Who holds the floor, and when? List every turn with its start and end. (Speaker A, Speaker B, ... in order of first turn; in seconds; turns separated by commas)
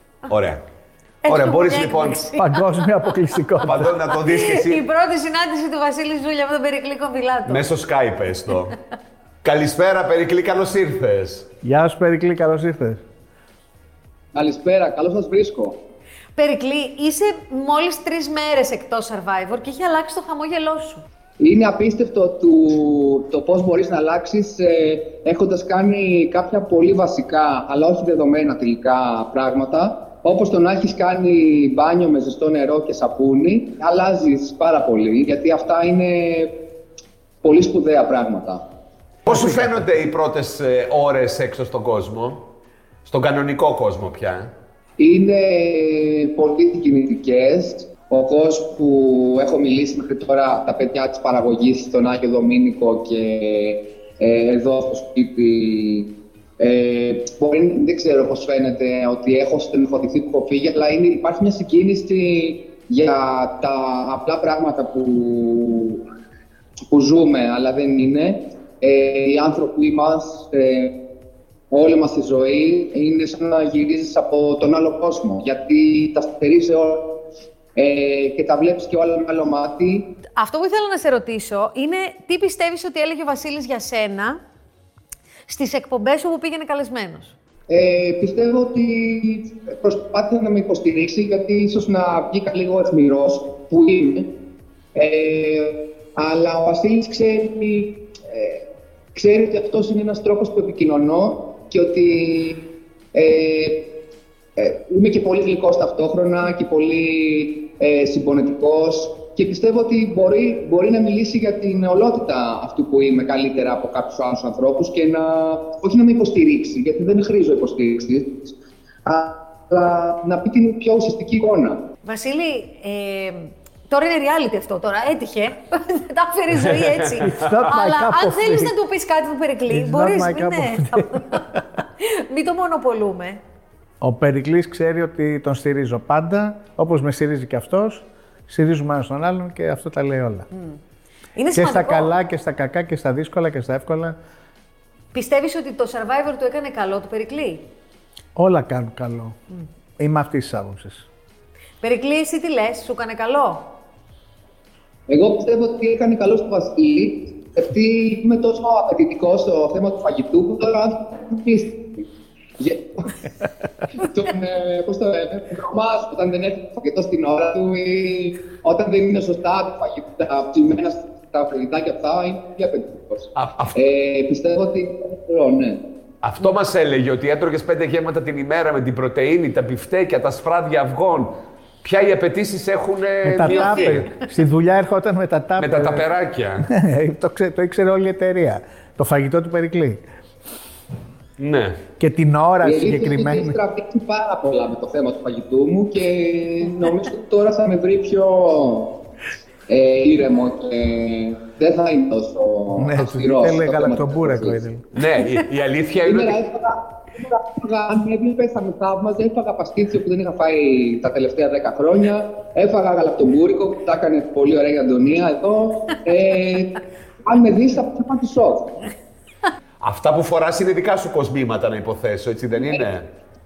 Speaker A: 0.3-0.6, Speaker B: 1.2-2.8, Speaker A: 1.2-2.3, Speaker C: 2.4-3.9, Speaker A: 3.6-4.8, Speaker B: 3.9-7.7, Speaker A: 7.5-8.8, Speaker A: 9.4-11.5, Speaker C: 11.6-13.0, Speaker D: 14.3-15.8, Speaker B: 16.4-21.0, Speaker D: 21.4-36.5, Speaker D: 37.4-38.6, Speaker A: 39.3-42.5, Speaker C: 39.3-39.8, Speaker A: 43.1-44.5, Speaker D: 45.0-66.0, Speaker D: 66.9-71.0, Speaker D: 71.7-77.2, Speaker D: 77.8-80.1, Speaker B: 80.4-84.4, Speaker B: 85.5-87.3, Speaker D: 87.7-94.3, Speaker D: 95.0-103.9, Speaker D: 104.6-118.5, Speaker D: 119.0-121.8, Speaker B: 122.0-133.4, Speaker C: 127.2-128.7, Speaker C: 129.7-131.6, Speaker C: 134.0-140.5, Speaker B: 140.5-140.8, Speaker B: 141.4-142.1, Speaker C: 141.5-144.2, Speaker B: 145.1-147.7, Speaker C: 148.4-149.4, Speaker C: 150.0-151.1, Speaker B: 151.8-153.7, Speaker D: 155.1-162.1, Speaker D: 162.6-163.3, Speaker D: 163.9-175.8, Speaker A: 173.3-173.8, Speaker A: 176.2-184.1, Speaker C: 183.2-186.1, Speaker A: 185.6-186.7, Speaker C: 186.6-190.0, Speaker A: 191.4-191.8, Speaker C: 192.0-193.6, Speaker D: 192.6-199.0, Speaker D: 199.7-204.6, Speaker C: 202.8-204.9, Speaker A: 204.9-206.4, Speaker D: 206.0-218.8, Speaker A: 219.8-223.1, Speaker D: 222.6-222.9